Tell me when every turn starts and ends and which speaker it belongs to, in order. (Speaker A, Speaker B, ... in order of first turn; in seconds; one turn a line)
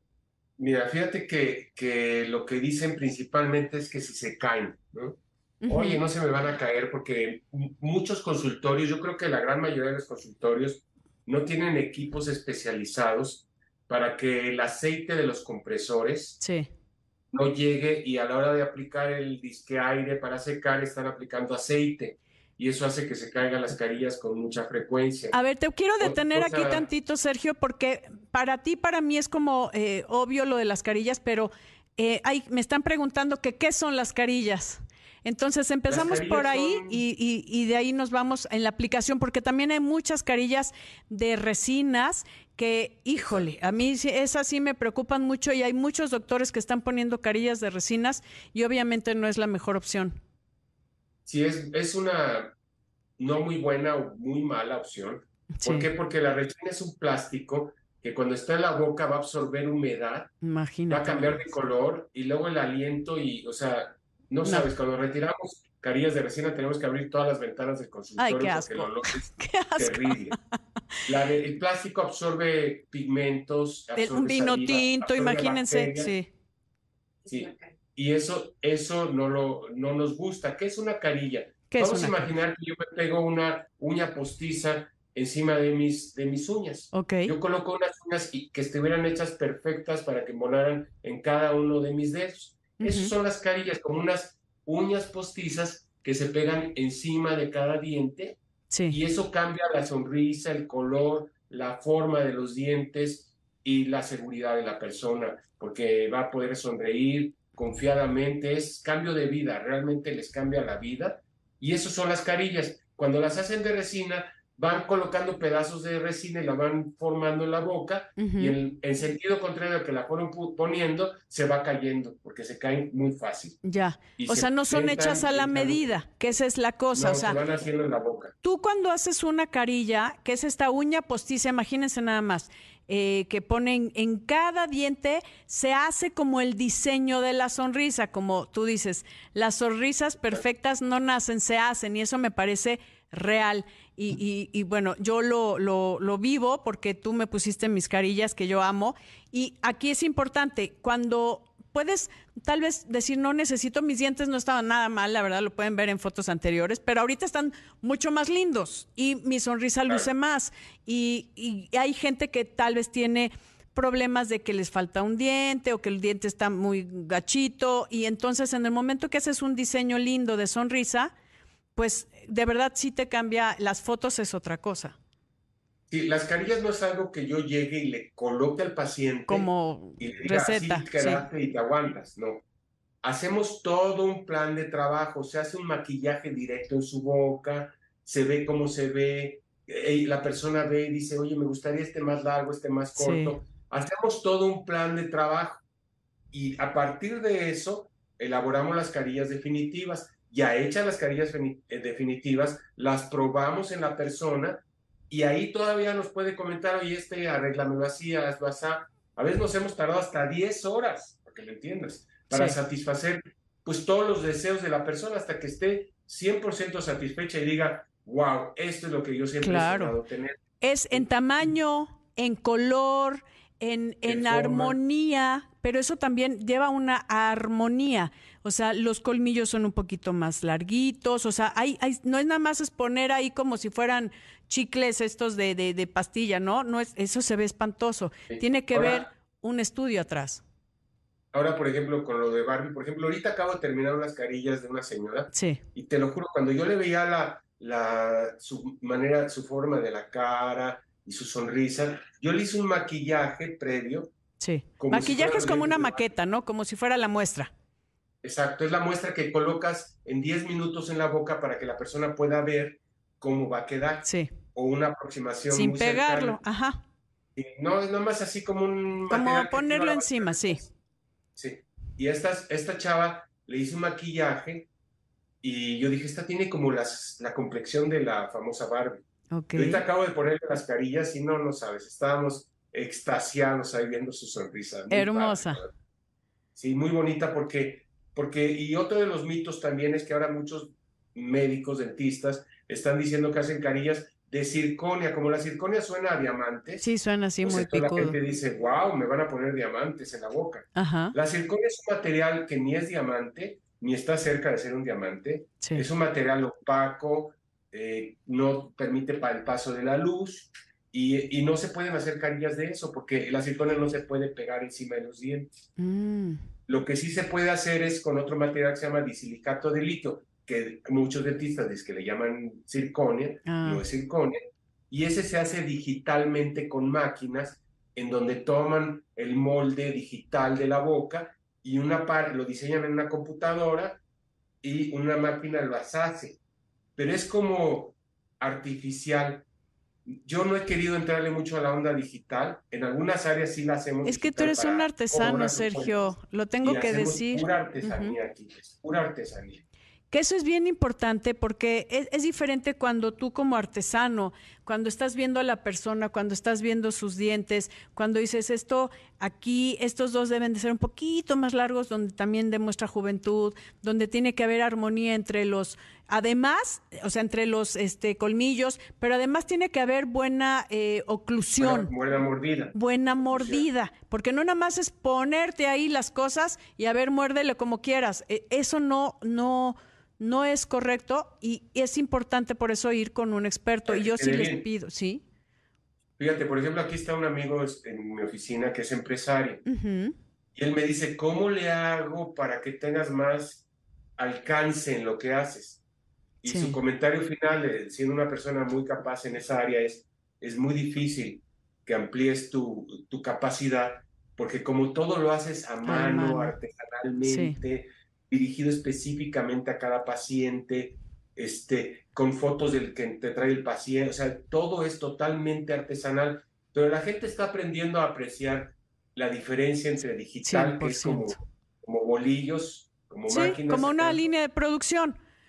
Speaker A: 0.6-16.4
Speaker B: 5.6-6.0
Speaker B: 16.4-16.7
Speaker A: 17.3-25.4
Speaker B: 25.3-50.2
Speaker A: 26.0-26.9
Speaker A: 35.9-37.0
Speaker A: 43.2-43.5
Speaker A: 51.3-52.5
Speaker A: 53.2-60.3
Speaker B: 55.6-55.9
Speaker B: 60.4-61.5
Speaker A: 60.9-70.4
Speaker B: 64.4-64.7
Speaker B: 68.2-70.3
Speaker A: 71.1-76.1
Speaker B: 74.0-76.3
Speaker A: 77.2-123.6
Speaker B: 81.7-82.3
Speaker B: 86.9-87.3
Speaker B: 92.8-93.1
Speaker B: 98.7-99.0
Speaker B: 118.2-118.6
Speaker B: 123.6-127.4
Speaker A: 124.2-126.0
Speaker A: 126.9-128.3
Speaker B: 128.4-171.1
Speaker B: 171.8-175.0
Speaker A: 175.9-182.4
Speaker B: 179.3-181.2
Speaker A: 183.0-195.6
Speaker B: 193.0-193.4
Speaker A: 196.3-220.4
Speaker B: 212.3-212.6
Speaker B: 219.4-220.0
Speaker B: 220.6-240.4
Speaker A: 224.1-224.8
Speaker A: 238.3-239.0
Speaker A: 241.3-254.1
Speaker B: 245.3-245.6
Speaker B: 254.4-257.5
Speaker A: 254.8-256.1
Speaker A: 258.2-266.4
Speaker B: 264.0-264.3
Speaker B: 265.5-266.8
Speaker A: 267.4-270.7
Speaker B: 269.1-270.6
Speaker A: 271.4-274.7
Speaker A: 275.4-279.0
Speaker B: 279.3-279.8
Speaker A: 279.6-285.7
Speaker B: 284.9-285.6
Speaker A: 286.6-296.9
Speaker B: 296.8-298.2
Speaker A: 297.4-315.5
Speaker B: 300.8-301.1
Speaker B: 315.8-316.4
Speaker A: 316.7-324.4
Speaker B: 323.4-323.8
Speaker A: 324.9-334.0
Speaker A: 334.6-336.4
Speaker A: 337.0-339.5
Speaker A: 340.2-349.6
Speaker B: 344.0-348.2
Speaker B: 350.1-371.9
Speaker A: 371.6-373.7
Speaker B: 372.7-385.2
Speaker A: 383.9-384.7
Speaker A: 386.2-389.6
Speaker B: 389.7-390.1
Speaker A: 390.6-393.6
Speaker A: 394.2-395.8
Speaker A: 396.4-424.2
Speaker B: 396.5-396.8
Speaker B: 405.8-406.5
Speaker B: 407.2-407.6
Speaker B: 420.4-421.4
Speaker B: 423.3-425.2